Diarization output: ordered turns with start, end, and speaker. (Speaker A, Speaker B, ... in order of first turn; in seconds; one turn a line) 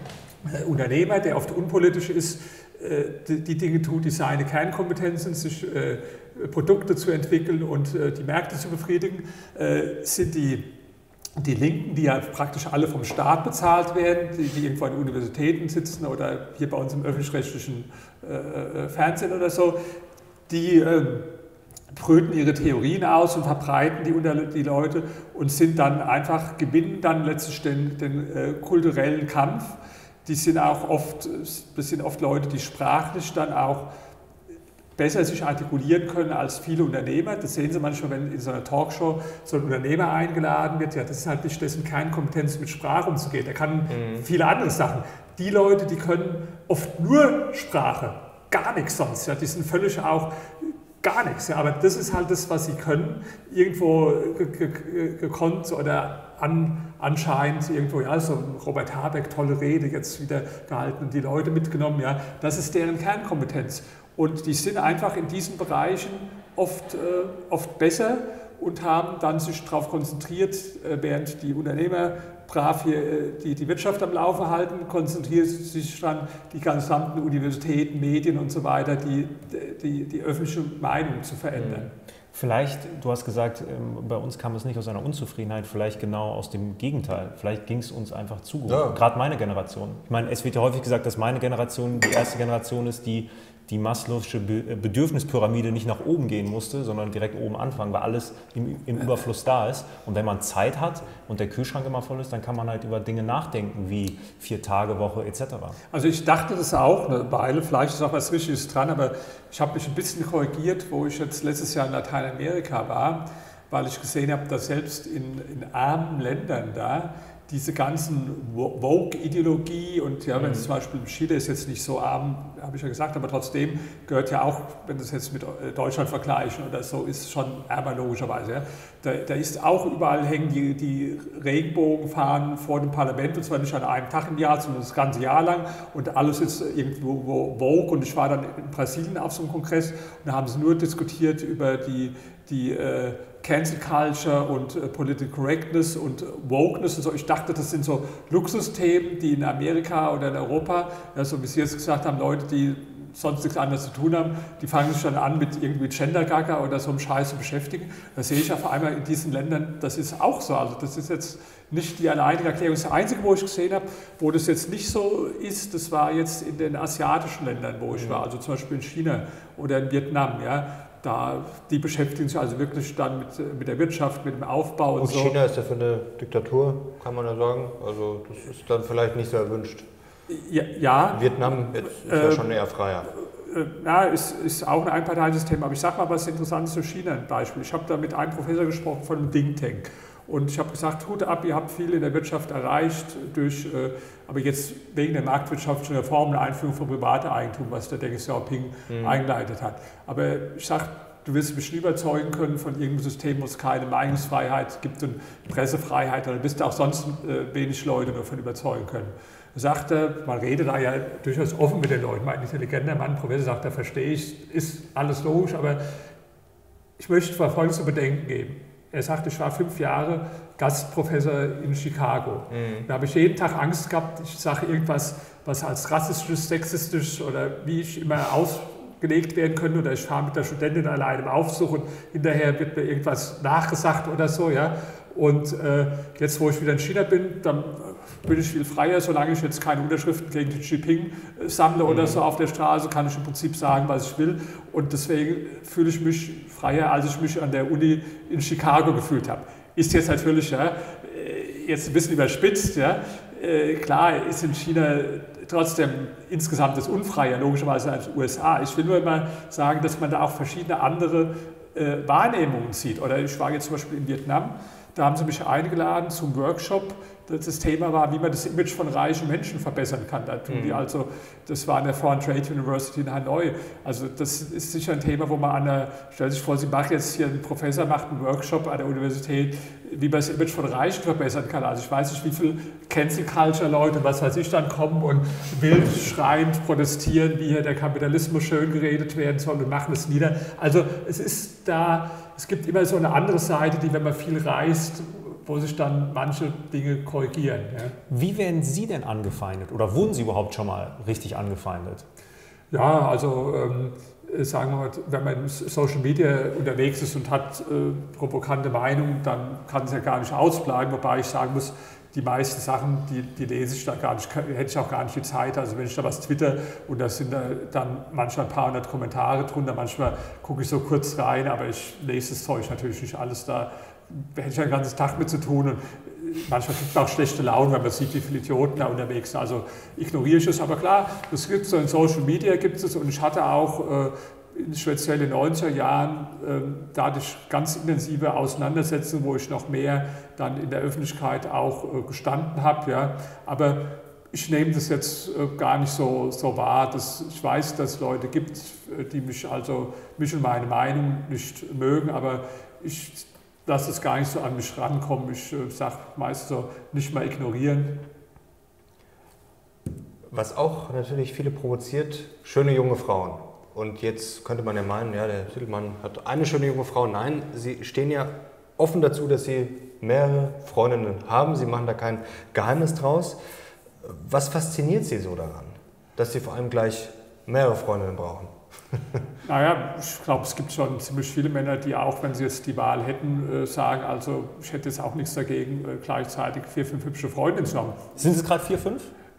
Speaker A: 0.4-10.7
Speaker A: 11.3-19.8
Speaker A: 20.5-21.3
Speaker A: 21.9-29.7
Speaker A: 30.2-33.9
Speaker A: 35.0-81.9
Speaker B: 43.9-44.2
Speaker B: 81.5-81.9
Speaker C: 82.3-105.8
Speaker B: 88.7-89.0
Speaker A: 105.9-175.3
Speaker B: 120.4-120.7
Speaker B: 167.9-168.2
Speaker B: 175.0-179.8
Speaker A: 180.3-182.5
Speaker B: 181.1-183.1
Speaker A: 183.1-215.8
Speaker B: 198.9-199.2
Speaker A: 217.0-297.9
Speaker B: 222.5-222.9
Speaker B: 241.8-242.2
Speaker B: 270.5-270.9
Speaker C: 298.1-302.0
Speaker A: 302.7-358.0
Speaker B: 360.3-373.4
Speaker B: 374.0-379.2
Speaker A: 379.4-388.1
Speaker C: 388.1-389.1